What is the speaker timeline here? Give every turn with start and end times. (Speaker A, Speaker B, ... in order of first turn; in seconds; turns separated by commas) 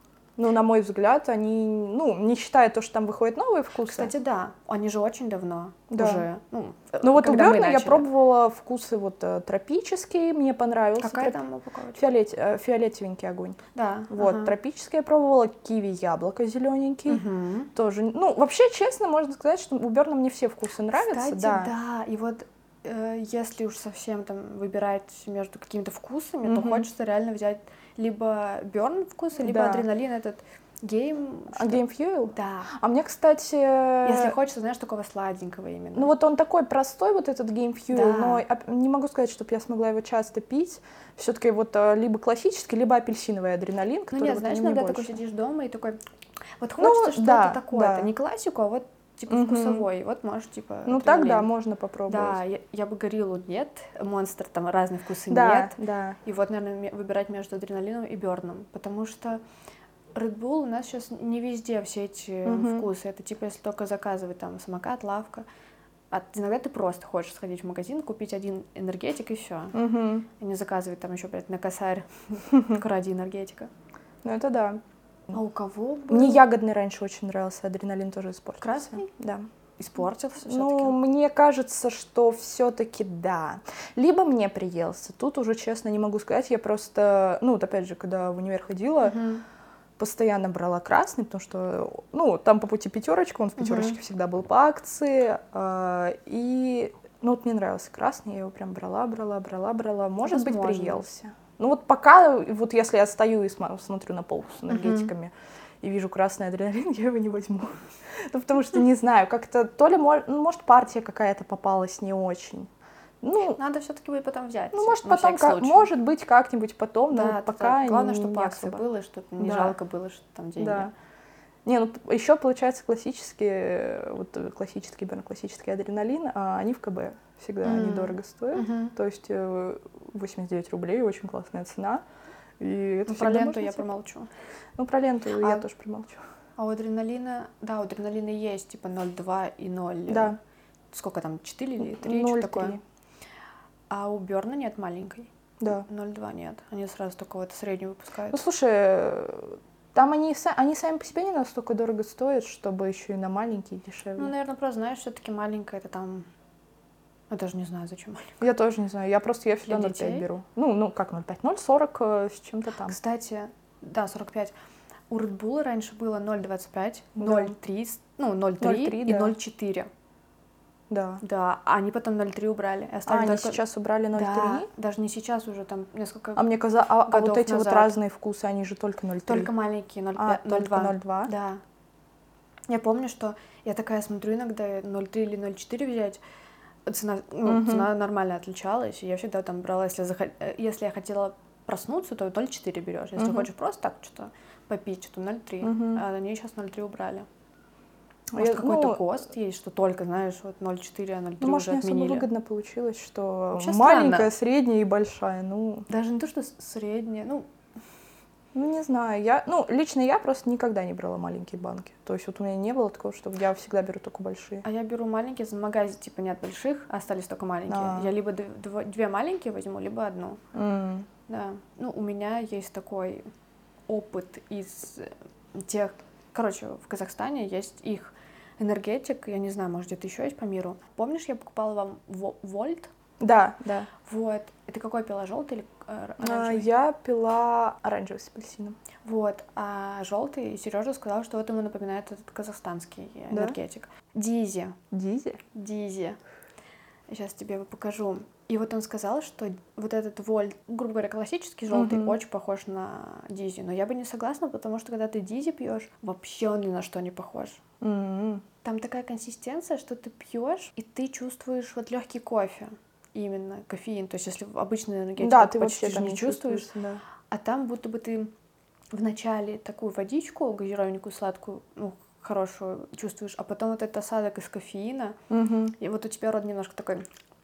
Speaker A: 0.4-4.1, Speaker B: 3.9-8.1, Speaker A: 5.9-6.2, Speaker A: 7.0-11.4, Speaker B: 11.0-12.1, Speaker A: 12.0-13.6, Speaker B: 13.7-14.6, Speaker A: 14.1-21.7, Speaker B: 17.1-17.7, Speaker B: 20.9-32.7, Speaker A: 26.4-26.9, Speaker A: 29.4-29.9, Speaker A: 31.5-34.4, Speaker B: 34.0-36.1, Speaker A: 36.0-45.2, Speaker B: 37.9-38.5, Speaker B: 44.1-46.0, Speaker B: 46.6-51.5, Speaker A: 46.8-48.1, Speaker A: 49.3-49.9, Speaker A: 50.9-52.4, Speaker B: 52.1-59.4, Speaker A: 55.3-56.2, Speaker B: 60.1-65.5, Speaker A: 62.5-62.9, Speaker B: 66.1-69.8, Speaker A: 69.7-70.3, Speaker B: 70.4-73.7, Speaker A: 74.2-74.8, Speaker B: 75.3-76.5, Speaker A: 76.1-79.5, Speaker B: 78.6-79.1, Speaker B: 79.8-81.0, Speaker A: 80.5-89.2, Speaker B: 89.0-89.4, Speaker A: 90.0-112.7, Speaker B: 93.6-94.0, Speaker B: 100.2-101.1, Speaker B: 104.7-105.1, Speaker A: 113.2-113.6, Speaker B: 113.6-115.9, Speaker A: 114.7-118.8, Speaker B: 117.1-120.9, Speaker A: 119.4-119.8, Speaker A: 120.6-120.9, Speaker A: 121.7-132.0, Speaker B: 127.6-129.0, Speaker A: 132.6-133.9, Speaker B: 133.1-134.3, Speaker A: 134.8-136.2, Speaker B: 136.6-140.4, Speaker A: 140.1-140.4, Speaker B: 140.9-142.8, Speaker A: 141.8-142.8, Speaker B: 143.9-148.4, Speaker A: 145.6-145.9, Speaker A: 148.3-154.3, Speaker B: 154.2-156.3, Speaker B: 157.3-158.4, Speaker A: 158.4-163.0, Speaker B: 159.7-160.3, Speaker B: 162.9-164.5, Speaker B: 165.1-169.9, Speaker A: 167.2-167.5, Speaker A: 168.6-169.3, Speaker A: 170.9-171.2, Speaker B: 171.2-173.6, Speaker A: 173.1-174.7, Speaker B: 174.1-176.5, Speaker A: 176.4-179.5, Speaker B: 177.0-178.0, Speaker B: 179.3-181.6, Speaker A: 180.2-181.3, Speaker B: 182.7-186.2, Speaker B: 186.9-197.3, Speaker A: 187.4-187.9, Speaker A: 193.2-193.5, Speaker A: 195.6-196.0, Speaker A: 198.3-199.0, Speaker B: 198.4-202.3, Speaker A: 201.4-205.9, Speaker B: 203.6-204.3, Speaker B: 205.9-207.5, Speaker A: 208.5-214.7, Speaker B: 214.6-220.4, Speaker A: 217.7-218.1, Speaker A: 220.5-221.1, Speaker B: 221.3-223.3, Speaker B: 223.9-232.9, Speaker A: 233.2-233.9, Speaker B: 234.1-236.7, Speaker A: 236.2-238.8, Speaker B: 239.1-244.8, Speaker A: 243.3-243.6, Speaker A: 244.9-245.4, Speaker B: 245.5-246.2, Speaker B: 247.1-257.6, Speaker A: 251.7-252.2, Speaker A: 257.8-258.4, Speaker B: 258.6-266.7, Speaker A: 265.2-267.0, Speaker B: 267.3-268.3, Speaker B: 268.9-275.2, Speaker A: 275.3-275.8, Speaker B: 275.8-277.1